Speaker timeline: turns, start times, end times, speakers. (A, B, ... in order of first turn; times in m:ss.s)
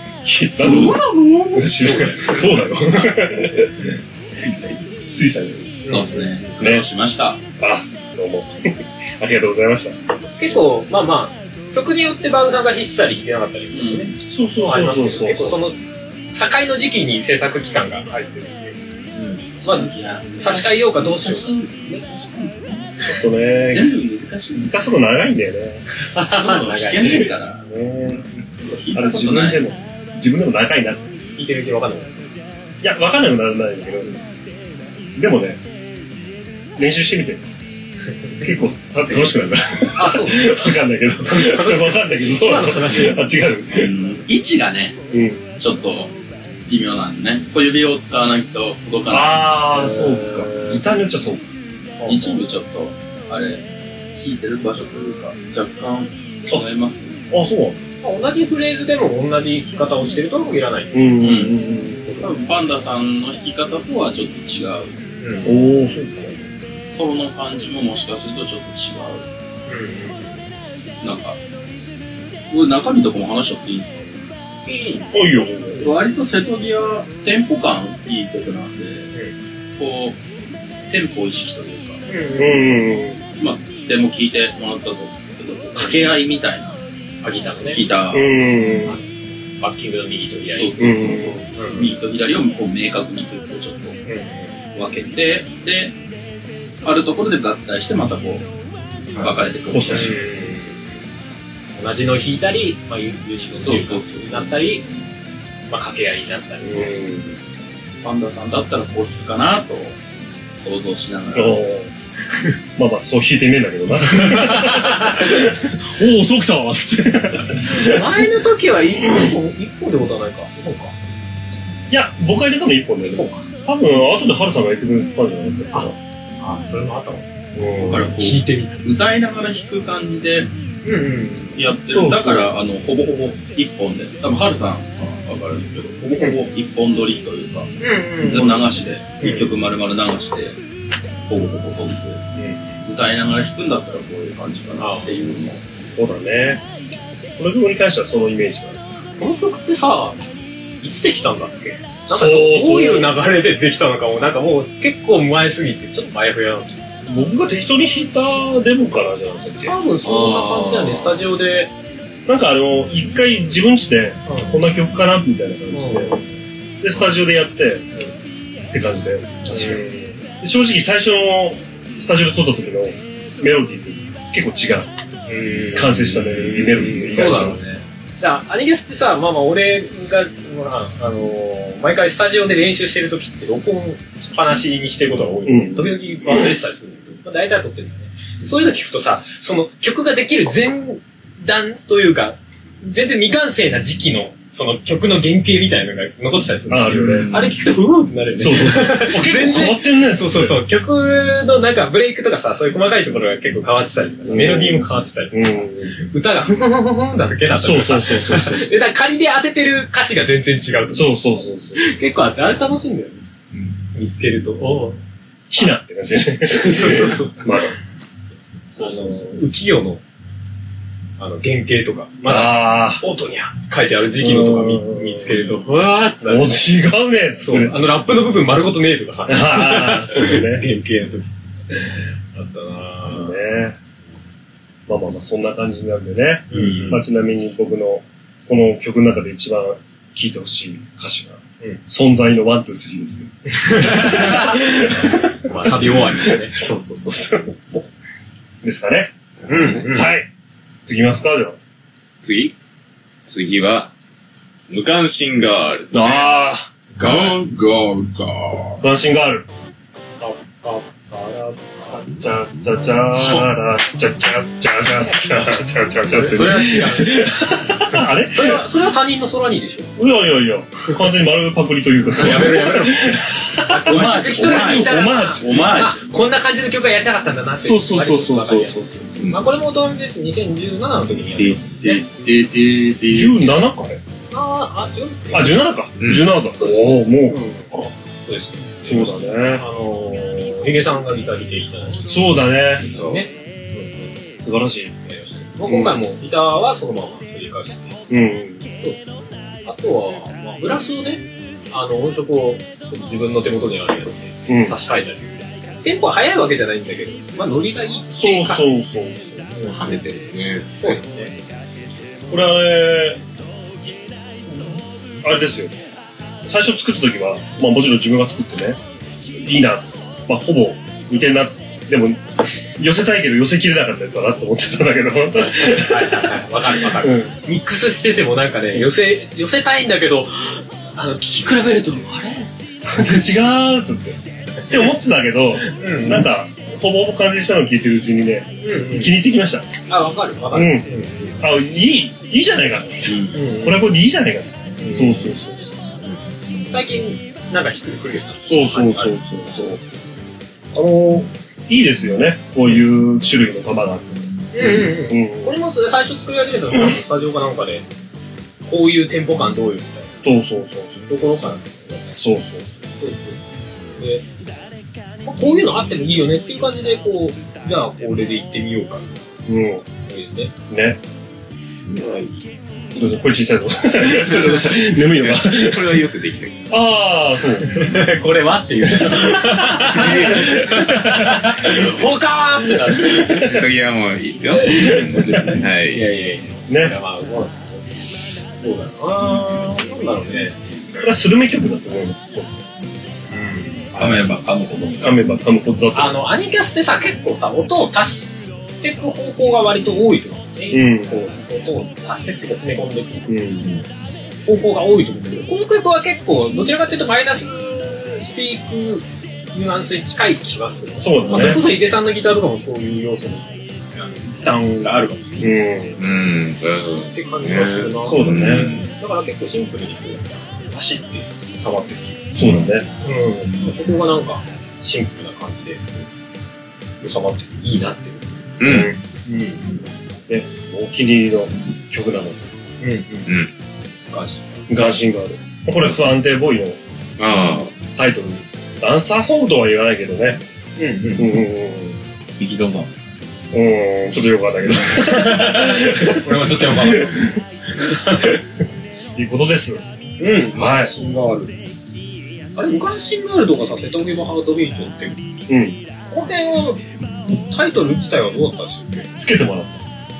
0:00.2-0:03.7 A
0:00.6-0:01.5 B
0:01.7-0:02.5 C
0:04.3-0:04.8 D
0:05.1-0:06.0 A
0:05.8-0:07.4 B
0:06.6-0:06.9 A
0:07.6-0:10.0 A
0:10.4-0:15.8 C
0:13.7-0:14.1 B
0:14.2-0:15.6 A
0:16.3-0:18.7 C
0:19.1-0:23.1 B
0:19.6-0:22.0 C
0:23.1-0:23.9 A
0:23.7-0:24.7 B
0:24.5-0:25.8 A
0:26.0-0:27.3 C
0:26.2-0:29.6 B
0:27.6-0:28.2 A
0:28.9-0:31.1 A
0:31.4-0:32.2 C
0:32.8-0:34.2 A
0:35.2-0:35.6 A
0:36.8-0:37.4 A
0:38.4-0:43.9 A
0:40.0-0:40.6 C
0:41.2-0:43.2 C
0:43.7-0:45.0 B
0:45.1-0:45.4 A
0:45.6-0:46.1 B
0:46.6-0:49.6 B
0:49.1-0:51.5 A
0:49.8-0:50.6 C
0:52.0-0:53.6 B
0:54.2-0:57.2 B
0:57.3-0:57.8 A
0:58.0-1:01.3 C
1:00.9-1:02.3 A
1:01.2-1:01.6 B
1:02.1-1:05.0 B
1:05.2-1:05.7 C
1:05.4-1:06.4 A
1:06.9-1:09.2 B
1:09.7-1:10.4 C
1:11.0-1:11.4 B
1:12.5-1:14.2 B
1:14.6-1:15.1 C
1:15.1-1:15.9 A
1:15.8-1:19.1 B
1:19.8-1:20.2 B
1:20.9-1:22.0 B
1:22.1-1:22.8 C
1:22.4-1:23.2 A
1:23.4-1:26.8 B
1:25.8-1:26.1 C
1:27.2-1:27.8 C
1:27.7-1:28.5 B
1:28.1-1:29.0 A
1:29.6-1:31.9 C
1:30.5-1:34.0 B
1:30.8-1:31.4 A
1:34.0-1:34.5 C
1:34.7-1:35.9 B
1:36.8-1:38.5 B
1:39.1-1:41.0 B
1:39.7-1:40.2 A
1:39.9-1:40.7 C
1:41.8-1:44.8 C
1:43.5-1:44.5 B
1:45.7-1:47.4 C
1:46.6-1:47.2 A
1:48.0-1:50.0 B
1:50.5-1:51.6 B
1:51.3-1:51.9 A
1:52.8-1:58.0 A
1:54.1-1:55.2 C
1:57.6-2:00.9 C
2:01.9-2:06.0 A
2:03.1-2:03.4 C
2:06.4-2:08.8 C
2:07.5-2:08.1 A
2:07.7-2:10.5 B
2:10.8-2:11.6 C
2:11.5-2:20.6 B
2:11.9-2:12.5 A
2:17.8-2:18.5 C
2:19.2-2:19.4 C
2:21.3-2:22.2 B
2:22.4-2:22.8 C
2:22.8-2:25.6 B
2:24.8-2:25.2 C
2:25.9-2:26.6 A
2:27.4-2:28.8 A
2:29.2-2:30.2 C
2:30.8-2:36.7 C
2:32.1-2:33.1 A
2:37.0-2:39.7 A
2:39.5-2:41.7 C
2:40.0-2:41.2 D
2:42.2-2:46.2 A
2:44.3-2:44.5 C
2:45.7-2:46.2 C
2:46.8-2:47.9 A
2:48.7-2:54.9 A
2:49.4-2:50.0 C
2:55.3-3:33.2 C
2:55.7-2:57.6 A
3:05.4-3:06.5 A
3:16.7-3:17.3 A
3:17.0-3:17.6 D
3:18.3-3:20.6 A
3:24.2-3:26.0 A
3:27.6-3:28.7 A
3:30.9-3:31.8 A
3:33.9-3:35.0 C
3:35.5-3:37.7 A
3:36.4-3:37.6 C
3:38.7-3:40.0 C
3:38.7-3:39.4 A
3:41.2-3:46.6 C
3:42.2-3:43.0 A
3:44.2-3:45.6 A
3:46.2-3:47.8 A
3:47.4-3:53.4 C
3:49.3-3:50.6 A
3:53.1-3:53.8 A
3:54.9-4:07.6 A
3:56.5-3:57.0 C
4:03.5-4:04.6 C
4:05.4-4:07.3 C
4:05.5-4:06.0 D
4:08.6-4:09.1 A
4:09.5-4:10.1 C
4:09.5-4:09.8 D
4:09.8-4:10.3 A
4:10.8-4:11.6 A
4:12.2-4:12.5 D
4:13.2-4:13.9 D
4:14.7-4:16.3 D
4:15.9-4:17.2 A
4:17.0-4:18.8 D
4:17.0-4:17.3 B
4:18.8-4:19.4 A
4:20.2-4:21.7 C
4:21.9-4:28.6 A
4:26.0-4:27.4 C
4:27.9-4:29.9 C
4:30.0-4:35.7 A
4:32.1-4:42.0 C
4:33.8-4:36.0 B
4:37.6-4:39.3 A
4:41.8-4:43.6 B
4:43.1-4:44.0 A
4:44.3-4:45.7 C
4:45.3-4:47.4 A
4:46.0-4:46.3 D
4:46.6-4:47.7 C
4:48.2-4:52.2 C
4:48.8-4:49.6 A
4:52.1-4:52.9 A
4:52.8-4:54.1 C
4:52.8-4:53.2 D
4:54.4-4:54.9 A
4:55.0-4:58.0 C
4:55.6-4:56.0 A
4:58.1-4:58.6 A
4:58.8-4:59.1 C
4:59.6-5:08.6 C
5:04.5-5:04.7 A
5:08.1-5:09.5 A
5:09.5-5:10.0 C
5:09.6-5:10.7 D
5:10.8-5:11.3 C
5:12.3-5:13.2 A
5:14.5-5:15.7 A
5:16.4-5:18.8 A
5:19.3-5:27.3 A
5:25.4-5:33.4 C
5:32.8-5:34.2 A
5:34.7-5:39.7 A
5:35.7-5:36.3 C
5:38.6-5:39.2 C
5:39.9-5:41.4 C
5:40.5-5:45.8 A
5:43.0-5:43.4 B
5:43.3-5:43.8 C
5:44.8-5:45.4 C
5:46.7-5:49.2 C
5:48.4-5:49.8 A
5:50.7-5:55.5 A
5:54.5-5:57.8 C
5:58.6-6:00.2 C
6:00.2-6:01.0 A
6:01.1-6:02.2 C
6:02.2-6:02.7 A
6:02.9-6:03.4 C
6:04.0-6:04.2 C
6:05.2-6:09.2 C
6:09.5-6:09.8 A
6:10.0-6:10.5 C
6:10.7-6:11.0 A
6:11.9-6:12.3 D
6:12.9-6:16.1 A
6:14.1-6:16.7 D
6:16.7-6:18.0 A
6:17.7-6:23.4 C
6:19.0-6:19.3 A
6:19.7-6:22.1 D
6:20.0-6:21.4 A
6:22.9-6:26.0 D
6:23.0-6:23.5 A
6:25.2-6:25.5 A
6:25.4-6:30.6 C
6:26.7-6:26.9 A
6:30.9-6:32.5 A
6:33.3-6:33.8 C
6:33.9-6:35.2 B
6:35.0-6:36.2 A
6:35.9-6:43.4 C
6:40.7-6:41.3 A
6:43.3-6:43.7 A
6:44.4-6:55.5 C
6:51.0-6:51.7 A
6:55.4-6:56.0 A
6:56.0-6:58.9 D
6:57.1-7:02.3 C
6:58.0-6:58.7 A
7:02.3-7:02.8 A
7:02.4-7:02.7 D
7:03.0-7:05.8 C
7:07.0-7:08.6 C
7:08.6-7:08.9 D
7:08.6-7:09.0 A
7:09.2-7:09.8 C
7:10.3-7:12.4 A
7:12.8-7:13.3 C
7:13.3-7:13.5 D
7:14.1-7:14.6 C
7:14.7-7:16.8 A
7:17.2-7:17.7 D
7:18.0-7:20.4 A
7:20.8-7:21.4 C
7:21.2-7:22.0 A
7:22.4-7:23.0 B
7:22.4-7:22.8 D
7:23.5-7:27.4 A
7:24.9-7:28.3 C
7:29.2-7:29.8 A
7:30.2-7:31.6 C
7:30.5-7:30.9 A
7:32.5-7:35.3 C
7:35.5-7:35.8 A
7:36.1-7:39.1 C
7:39.2-7:39.8 A